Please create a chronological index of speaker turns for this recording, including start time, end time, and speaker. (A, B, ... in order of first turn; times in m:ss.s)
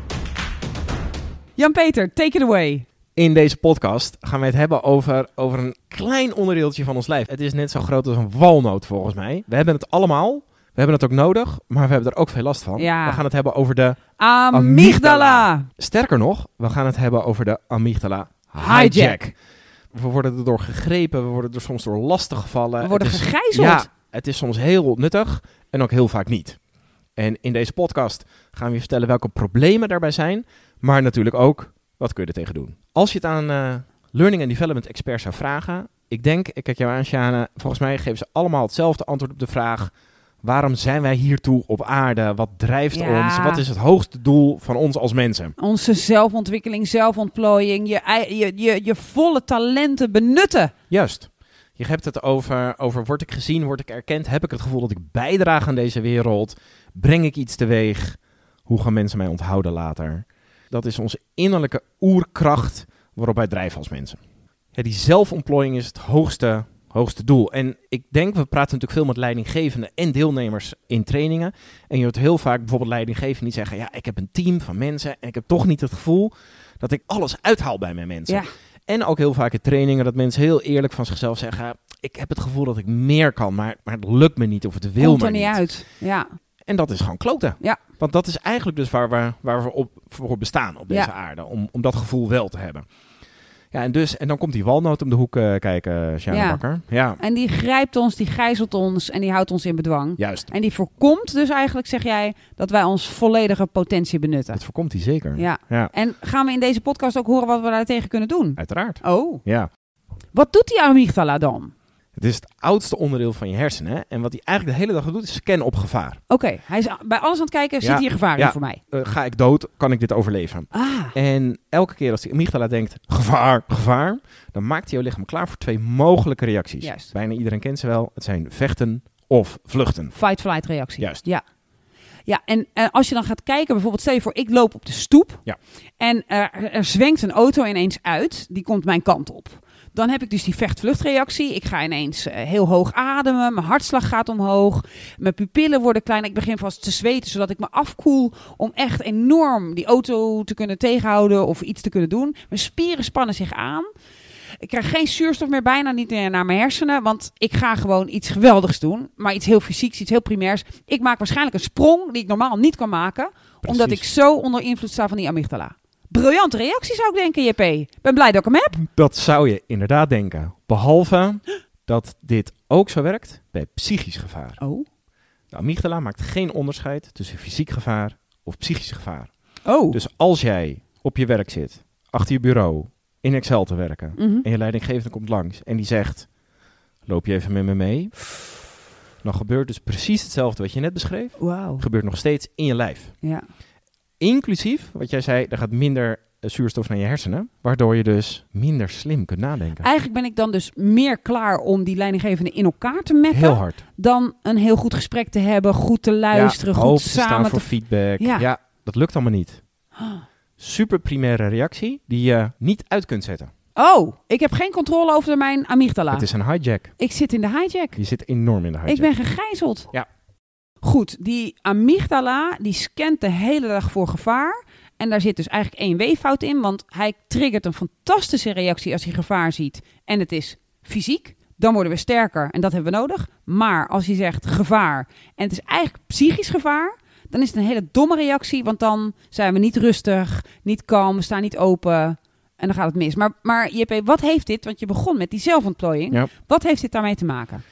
0:01.6-0:02.8 A
0:03.2-0:19.3 B
0:12.8-0:13.2 A
0:14.2-0:15.6 A
0:18.6-0:19.2 A
0:19.9-0:26.6 B
0:22.8-0:23.9 A
0:27.2-0:39.9 B
0:40.4-0:45.5 B
0:42.9-0:43.6 A
0:45.6-0:50.7 A
0:50.9-1:04.2 B
1:04.7-1:25.6 B
1:25.0-1:26.3 A
1:26.6-1:32.8 B
1:33.7-1:37.2 B
1:36.3-1:36.6 A
1:37.2-1:44.6 A
1:40.2-1:40.5 B
1:44.5-1:45.9 B
1:45.4-1:49.4 A
1:48.6-1:49.7 B
1:50.3-1:51.7 A
1:52.2-1:56.2 B
1:56.3-1:58.8 A
1:57.8-2:10.1 B
2:00.7-2:01.1 A
2:06.8-2:07.1 A
2:10.1-2:11.4 A
2:11.0-2:11.2 B
2:12.2-2:15.4 A
2:16.0-2:33.9 A
2:34.6-2:48.8 A
2:43.6-2:44.0 B
2:48.7-2:54.6 B
2:54.6-2:54.8 A
2:55.5-2:59.3 B
2:59.6-3:00.0 A
2:59.9-3:06.3 B
3:04.2-3:04.4 A
3:07.0-3:08.1 B
3:09.2-3:13.1 B
3:11.4-3:11.8 A
3:14.2-3:19.9 B
3:19.8-3:28.5 A
3:23.3-3:23.8 B
3:26.3-3:29.6 B
3:30.0-3:30.2 A
3:30.6-3:33.5 B
3:33.8-3:36.3 A
3:36.1-3:36.9 B
3:37.0-3:38.0 A
3:38.0-3:39.1 B
3:38.9-3:39.9 A
3:40.8-4:07.6 A